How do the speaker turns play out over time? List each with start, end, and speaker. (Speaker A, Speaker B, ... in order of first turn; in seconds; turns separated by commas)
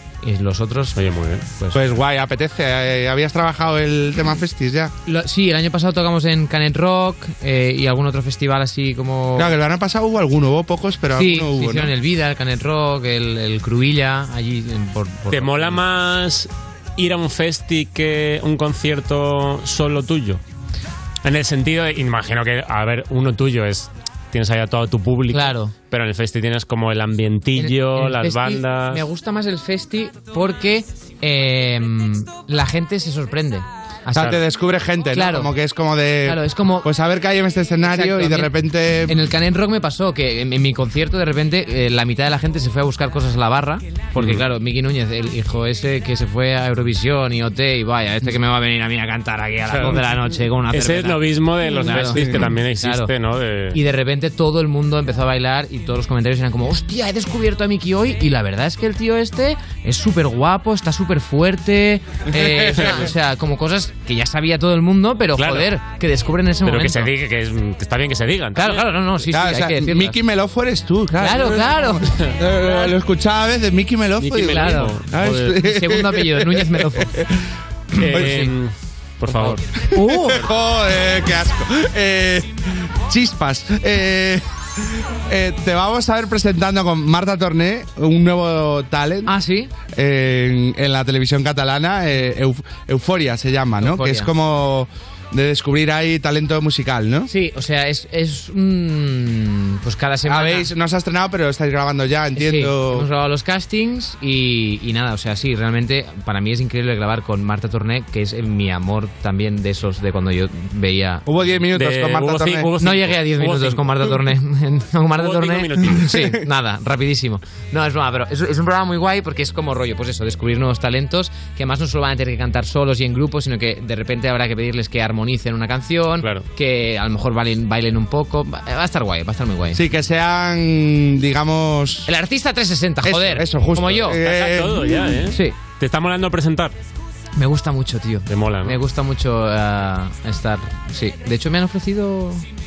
Speaker A: 0.2-1.0, Speaker B: 0.9-1.4, Speaker C: 1.7-4.9, Speaker A: 5.1-9.5, Speaker C: 9.4-11.9, Speaker A: 11.1-15.8, Speaker B: 15.3-20.4, Speaker B: 21.2-29.0, Speaker A: 25.3-25.7, Speaker A: 27.6-34.4, Speaker C: 34.1-39.2, Speaker A: 35.1-35.5, Speaker A: 36.2-36.9, Speaker A: 37.8-38.5, Speaker A: 39.1-53.1, Speaker B: 44.2-44.4, Speaker B: 49.7-50.0, Speaker B: 50.7-53.8, Speaker A: 53.7-67.1, Speaker C: 62.3-62.9, Speaker B: 62.8-63.1, Speaker B: 65.3-65.7, Speaker B: 66.6-68.9, Speaker A: 68.6-70.2, Speaker C: 69.3-77.3, Speaker A: 71.2-72.0, Speaker B: 72.0-72.4, Speaker B: 74.2-75.6, Speaker A: 74.4-75.0, Speaker A: 75.5-77.1, Speaker B: 78.0-79.6, Speaker C: 78.0-78.5, Speaker A: 78.0-78.5, Speaker C: 79.4-84.4, Speaker A: 80.0-80.4, Speaker C: 85.3-89.3, Speaker A: 89.3-89.7, Speaker C: 89.9-97.3, Speaker A: 93.8-94.3, Speaker A: 97.3-100.7, Speaker C: 100.3-103.1, Speaker A: 102.4-111.3, Speaker C: 111.3-112.8, Speaker B: 111.8-114.2, Speaker A: 112.8-129.8, Speaker B: 115.2-116.1, Speaker B: 126.2-126.5, Speaker C: 129.7-132.1, Speaker A: 132.1-134.2, Speaker C: 133.0-135.0, Speaker B: 134.1-136.8, Speaker A: 135.3-135.6, Speaker A: 137.4-142.4, Speaker B: 138.3-138.8